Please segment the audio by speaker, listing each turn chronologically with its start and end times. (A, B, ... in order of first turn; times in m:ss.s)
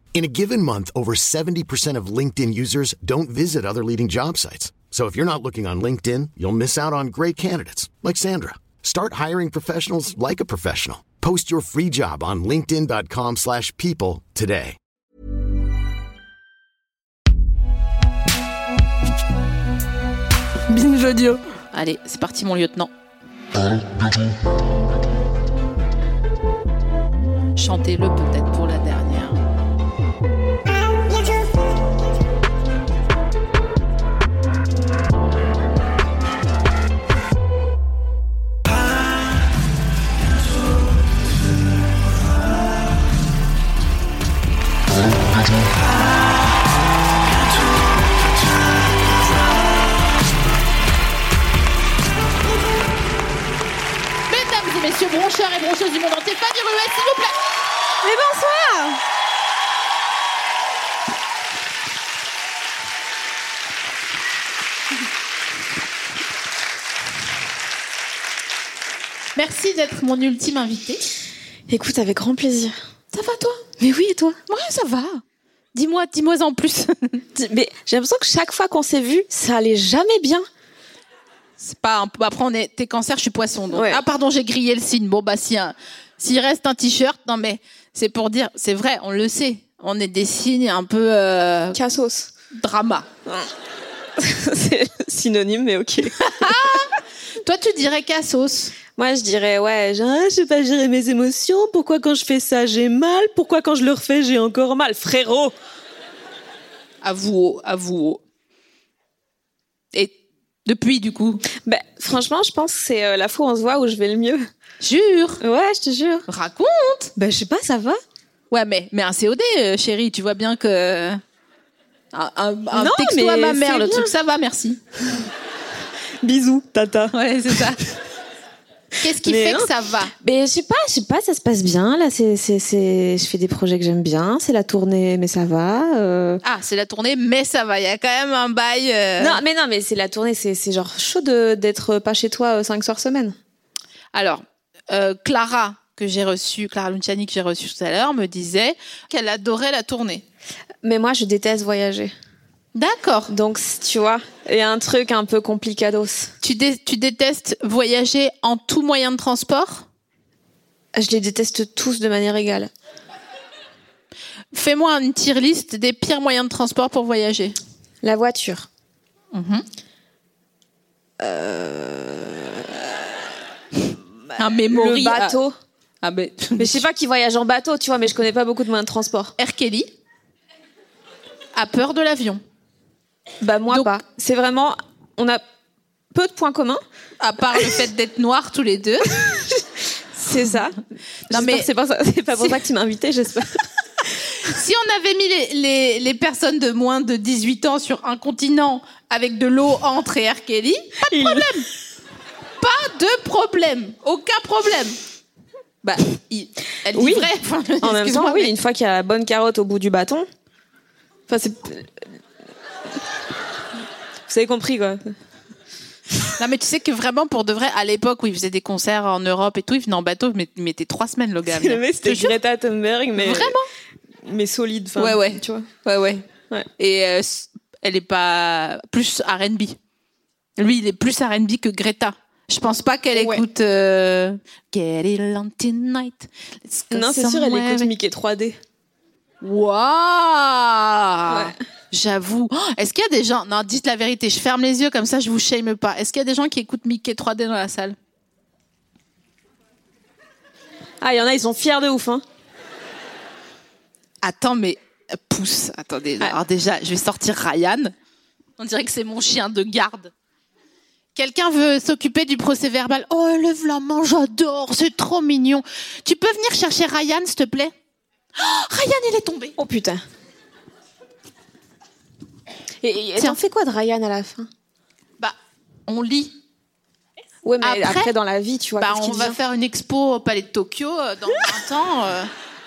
0:00.1-0:14.8 A
0:20.7-0:22.9 B
0:27.6-0:29.4 B
0:54.3-0:57.4 B
0:58.0-0:59.0 C
1:09.3-1:11.0 B
1:11.7-1:14.4 C
1:14.5-1:15.2 B
1:15.7-1:17.2 B
1:17.3-1:20.4 C
1:21.6-1:31.8 B
1:23.7-1:24.0 C
1:31.7-1:32.3 C
1:32.5-1:33.1 B
1:34.2-1:36.8 C
1:36.2-1:38.7 B
1:39.0-1:45.5 C
1:47.0-1:48.2 B
1:49.9-1:51.4 B
1:51.6-1:54.5 C
1:54.8-1:55.4 B
1:55.4-1:56.3 C
1:56.3-1:57.1 B
1:57.2-1:58.0 C
1:58.5-2:01.2 B
2:02.1-2:04.8 B
2:02.7-2:04.1 C
2:06.2-2:07.7 C
2:07.1-2:07.8 B
2:09.0-2:10.1 B
2:09.2-2:09.7 C
2:10.2-2:16.4 C
2:16.4-2:19.4 B
2:19.2-2:23.4 C
2:24.1-2:30.2 B
2:30.8-2:32.1 C
2:32.7-2:33.3 B
2:33.3-2:36.3 C
2:36.4-2:39.8 B
2:40.9-2:42.7 C
2:44.5-2:47.6 B
2:48.0-2:48.7 C
2:49.3-2:49.6 B
2:51.2-2:52.8 C
2:54.3-2:55.6 C
2:54.4-2:55.4 B
2:56.0-2:56.9 B
2:56.6-2:59.3 C
2:59.4-2:59.9 B
3:01.5-3:02.4 B
3:03.4-3:05.4 C
3:06.1-3:06.8 C
3:07.2-3:09.2 B
3:09.1-3:13.6 C
3:11.3-3:11.7 B
3:14.4-3:21.7 B
3:21.0-3:21.6 C
3:22.6-3:25.0 B
3:25.8-3:28.5 B
3:26.9-3:27.3 C
3:27.8-3:30.3 C
3:31.3-3:31.9 C
3:34.3-3:35.1 C
3:36.4-3:42.4 B
3:41.5-3:43.6 C
3:43.1-3:43.7 B
3:44.2-3:45.7 C
3:45.0-3:46.2 B
3:46.8-3:49.8 B
3:50.6-3:57.9 B
3:53.1-3:53.4 C
3:56.9-3:58.6 C
3:59.4-4:08.0 B
4:01.3-4:01.5 C
4:11.0-4:12.2 C
4:14.2-4:17.9 B
4:18.6-4:20.1 B
4:21.1-4:27.7 B
4:28.4-4:29.6 B
4:29.6-4:30.0 C
4:32.8-4:34.5 C
4:35.9-4:36.4 B
4:37.4-4:39.4 C
4:37.6-4:38.1 B
4:38.8-4:42.3 B